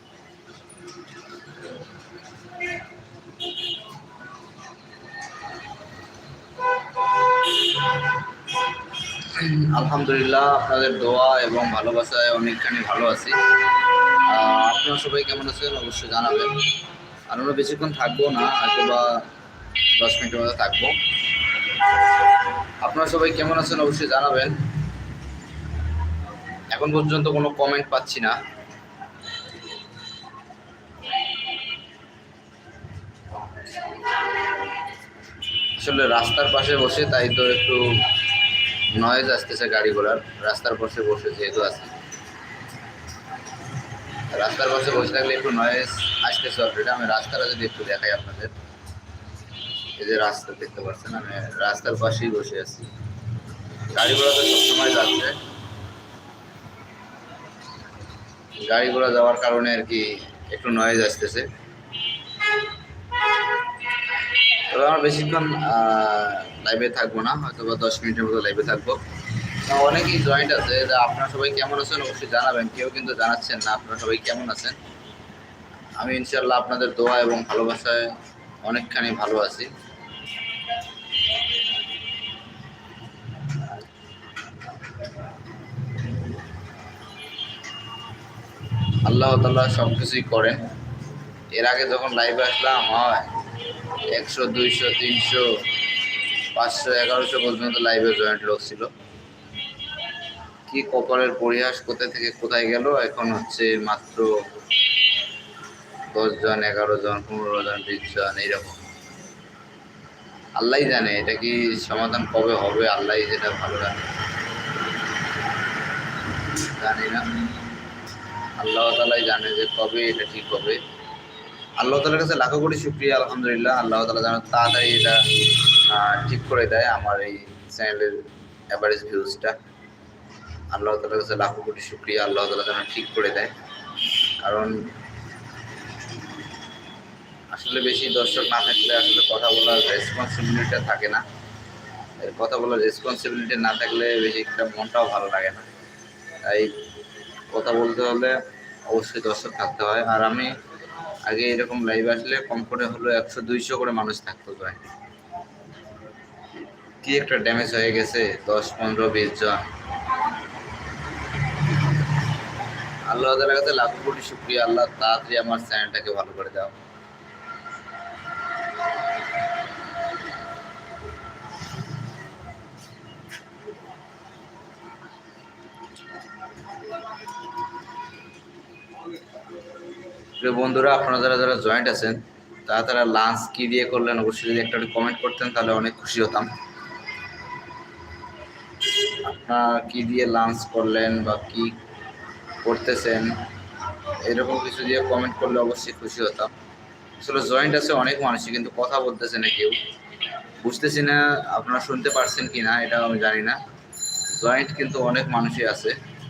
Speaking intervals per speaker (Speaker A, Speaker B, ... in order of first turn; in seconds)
Speaker A: 9.2-13.4, 14.2-16.7, 17.3-19.2, 20.0-20.9, 22.8-24.7, 26.7-28.4, 35.8-38.0, 38.9-41.9, 44.3-48.5, 50.0-52.9, 53.9-55.4, 58.6-61.5, 64.7-69.0, 69.6-74.8, 76.0-79.7, 89.0-90.7, 91.5-93.3, 94.1-95.5, 96.5-98.9, 100.7-104.4, 106.1-108.8, 110.6-114.1, 116.7-117.3, 118.6-120.8, 121.8-129.6, 130.7-133.5, 134.4-134.9, 137.5-141.2, 142.2-145.7, 146.4-146.8, 147.5-150.5, 151.2-154.8, 157.0-159.7, 163.1-166.8, 180.4-186.5, 189.1-191.7, 192.6-193.4, 194.2-196.5, 197.2-199.8, 200.6-203.6, 204.3-206.0